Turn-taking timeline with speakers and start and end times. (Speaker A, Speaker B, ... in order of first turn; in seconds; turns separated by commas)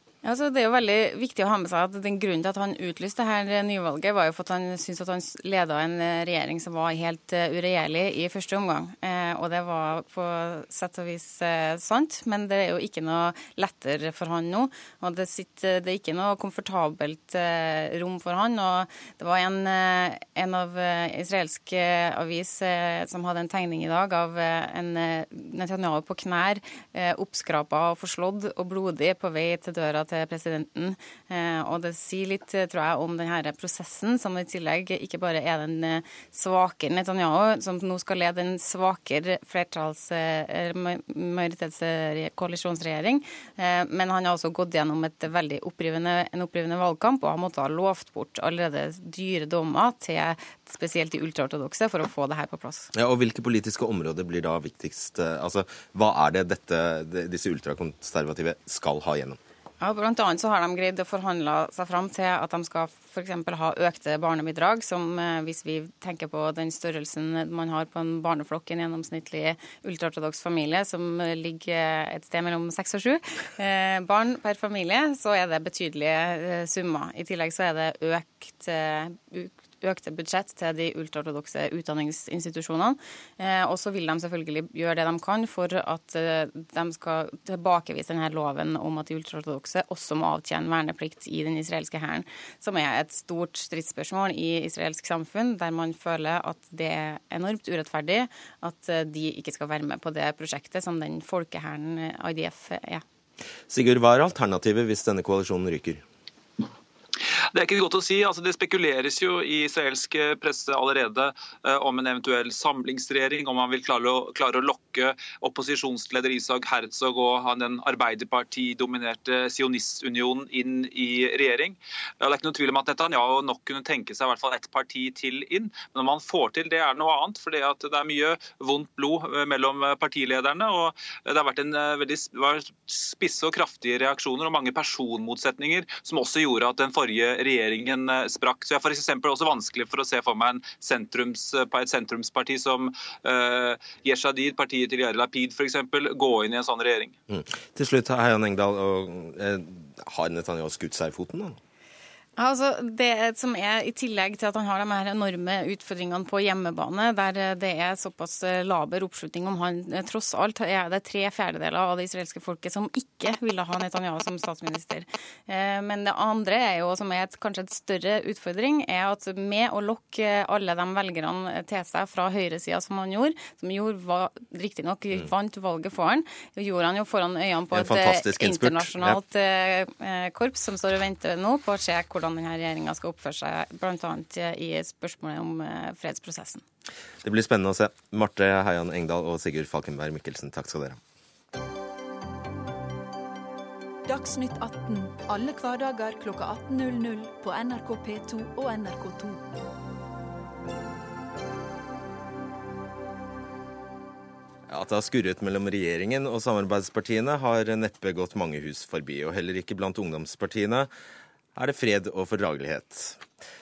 Speaker A: 0.2-52.9, Speaker B: 53.0-59.4, Speaker A: 59.8-103.0, Speaker B: 103.7-106.0, Speaker C: 107.5-147.2, Speaker B: 147.3-151.6, Speaker A: 152.4-186.6, Speaker B: 177.7-179.2, Speaker B: 187.2-191.0, Speaker D: 194.1-199.4, Speaker B: 204.7-210.9, Speaker B: 211.6-213.2